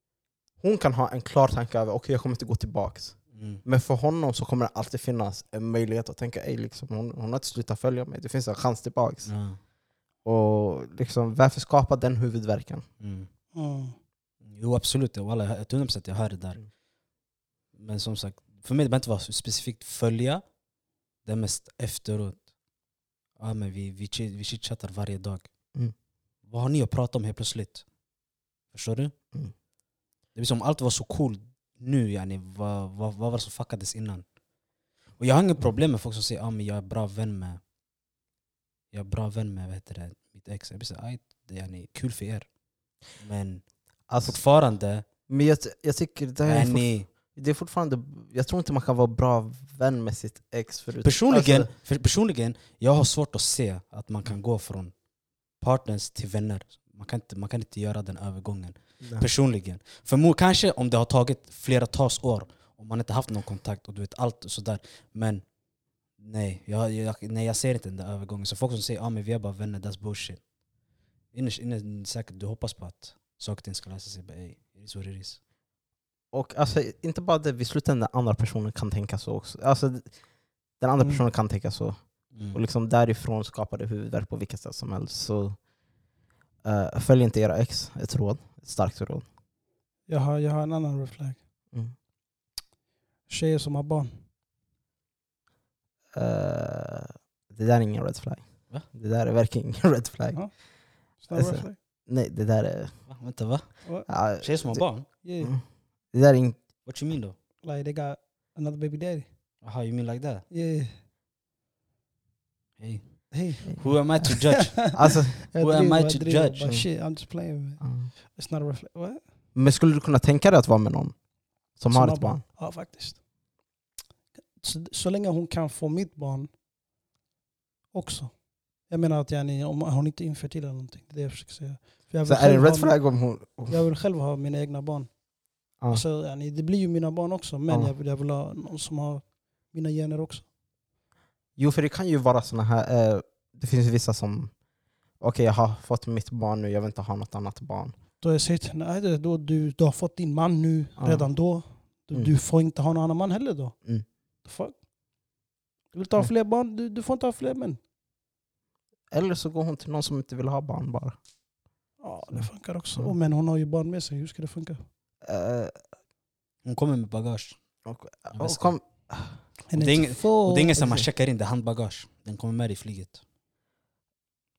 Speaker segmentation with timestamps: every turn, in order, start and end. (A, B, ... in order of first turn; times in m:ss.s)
0:00.6-0:09.3 A
0:03.3-0:03.6 B
0:09.2-0:09.6 B
0:10.2-0:12.8 A
0:13.0-0:13.3 B
0:13.5-0:14.0 C
0:14.4-0:16.7 B
0:17.7-0:20.4 B
0:21.2-0:22.5 B
0:23.4-0:25.5 B
0:26.5-0:27.8 B
0:28.7-0:29.1 B
0:30.3-0:34.2 B
0:35.2-0:37.6 B
0:38.9-0:42.5 B
0:43.1-0:45.0 B
0:44.1-0:44.4 A
0:45.3-0:51.7 A
0:46.4-0:47.1 B
0:51.0-0:54.9 B
0:55.6-1:05.4 B
0:59.0-0:59.3 A
1:06.2-1:10.4 B
1:11.3-1:15.4 B
1:16.3-1:20.2 A
1:20.8-1:25.6 A
1:22.3-1:22.6 B
1:26.6-1:29.2 A
1:30.1-1:31.4 C
1:33.3-1:34.2 C
1:36.1-1:40.6 A
1:41.2-1:41.8 C
1:41.3-1:43.0 A
1:43.1-1:45.1 B
1:44.1-1:46.6 A
1:45.2-1:45.5 C
1:46.8-1:47.3 B
1:47.6-1:49.3 C
1:49.6-1:50.4 B
1:50.5-1:50.9 C
1:52.8-1:55.0 B
1:53.3-1:59.2 C
1:54.9-1:55.4 A
1:55.5-1:56.7 B
1:57.8-1:58.1 A
1:59.5-2:01.2 A
2:01.8-2:02.4 A
2:01.9-2:03.2 C
2:04.6-2:06.5 C
2:07.9-2:15.2 C
2:12.2-2:13.8 A
2:15.8-2:16.0 A
2:15.9-2:20.4 C
2:17.7-2:17.9 A
2:21.6-2:24.5 A
2:25.2-2:27.9 A
2:28.2-2:33.8 C
2:31.0-2:31.3 A
2:34.4-2:34.8 C
2:35.9-2:37.8 C
2:39.1-2:41.2 A
2:42.0-2:44.8 C
2:42.3-2:43.1 A
2:45.2-2:45.8 A
2:46.6-2:47.6 B
2:47.8-2:49.4 A
2:48.3-2:48.7 B
2:49.7-2:50.7 C
2:49.7-2:53.2 B
2:50.7-2:51.0 A